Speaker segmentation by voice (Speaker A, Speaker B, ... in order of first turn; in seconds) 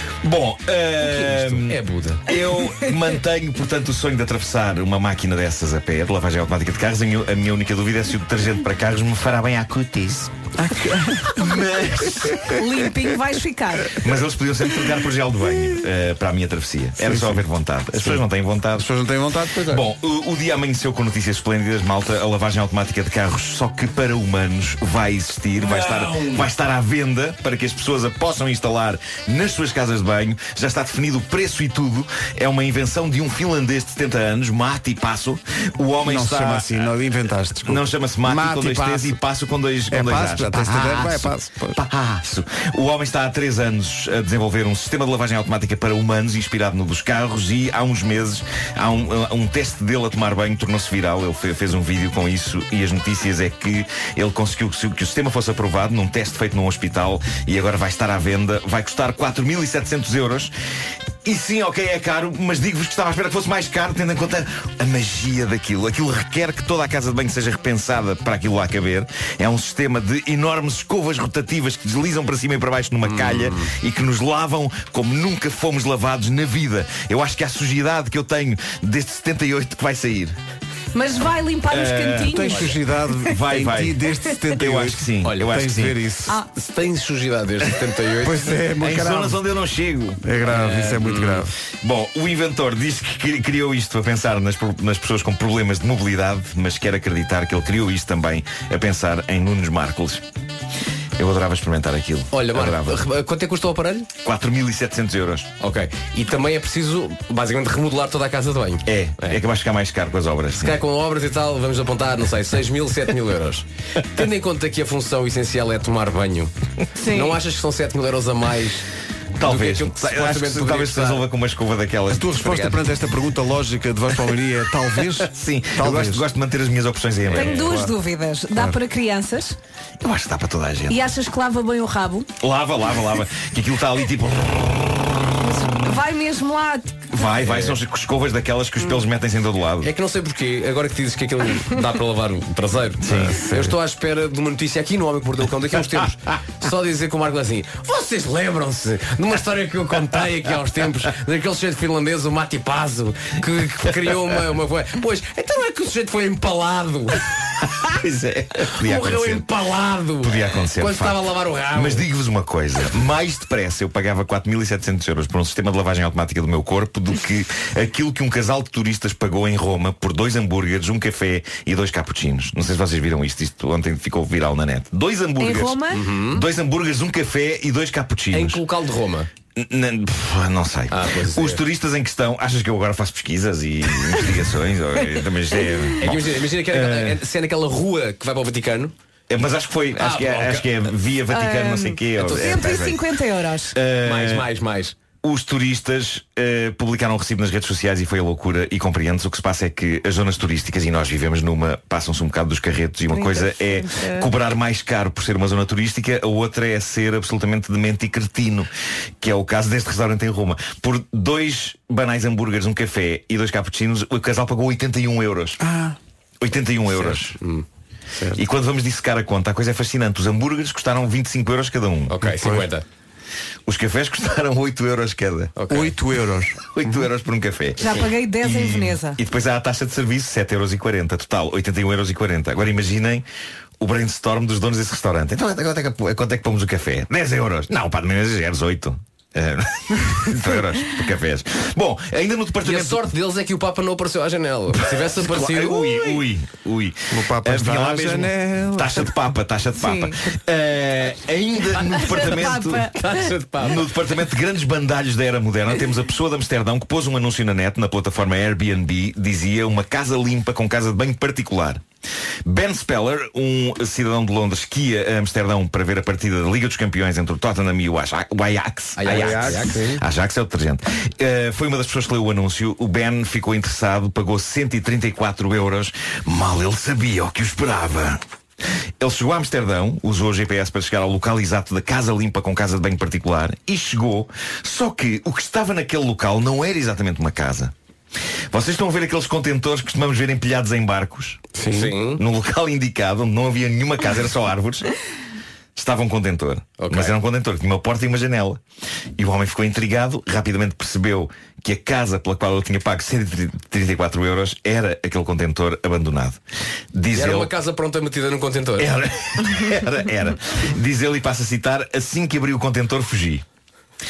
Speaker A: 0.2-10.3, 11.3-12.5, 14.0-18.9, 19.7-36.9, 37.6-60.5, 61.2-80.4, 81.7-82.4, 83.3-84.0, 84.6-86.0, 88.8-90.2, 91.8-100.2, 101.2-103.0, 104.2-105.5, 108.9-110.8, 119.4-122.5, 125.2-127.8, 130.0-131.0, 132.4-135.0, 137.1-139.9, 143.0-143.4, 157.7-159.5, 160.2-178.6, 179.6-187.2, 189.3-193.1, 193.7-194.5, 195.2-208.7, 209.2-215.6, 216.4-217.4, 218.3-222.2, 223.7-225.5, 226.7-233.2, 233.8-243.1, 244.8-253.0, 253.6-261.8, 262.4-278.2, 279.0-287.7, 288.5-291.4, 292.2-294.9, 295.8-298.6, 299.2-306.4, 306.9-307.5, 308.8-313.4
Speaker B: 1.1-2.3, 25.6-26.4, 73.0-73.7, 85.2-85.5, 86.5-88.5, 90.4-91.5, 102.3-104.1, 105.6-109.4, 110.6-116.5, 117.0-118.8, 119.4-121.3, 122.4-122.8, 137.4-137.8, 139.8-157.3, 158.8-162.1, 175.9-176.4, 178.3-179.3, 180.9-181.6, 186.0-188.9, 190.0-190.7, 192.2-192.8, 194.0-195.0, 216.9-217.7, 222.1-222.8, 225.6-225.9, 242.6-246.2, 252.9-253.9, 269.0-270.0, 291.7-292.2, 296.8-297.1, 307.1-308.9
Speaker C: 10.6-12.5, 17.0-19.8, 36.0-39.2, 39.9-41.8, 82.3-86.3, 88.2-89.4, 90.2-91.5, 122.1-126.3, 127.5-127.9, 143.2-143.8, 215.6-216.0, 222.3-222.7, 225.7-227.0, 247.1-249.1, 269.1-269.9, 291.6-291.9
Speaker D: 12.5-14.0, 80.9-82.7, 117.0-117.4, 127.3-129.6, 130.9-132.3, 135.4-137.1, 175.4-176.0, 191.3-193.8, 203.1-204.3, 227.8-229.2, 249.8-250.2, 251.9-253.0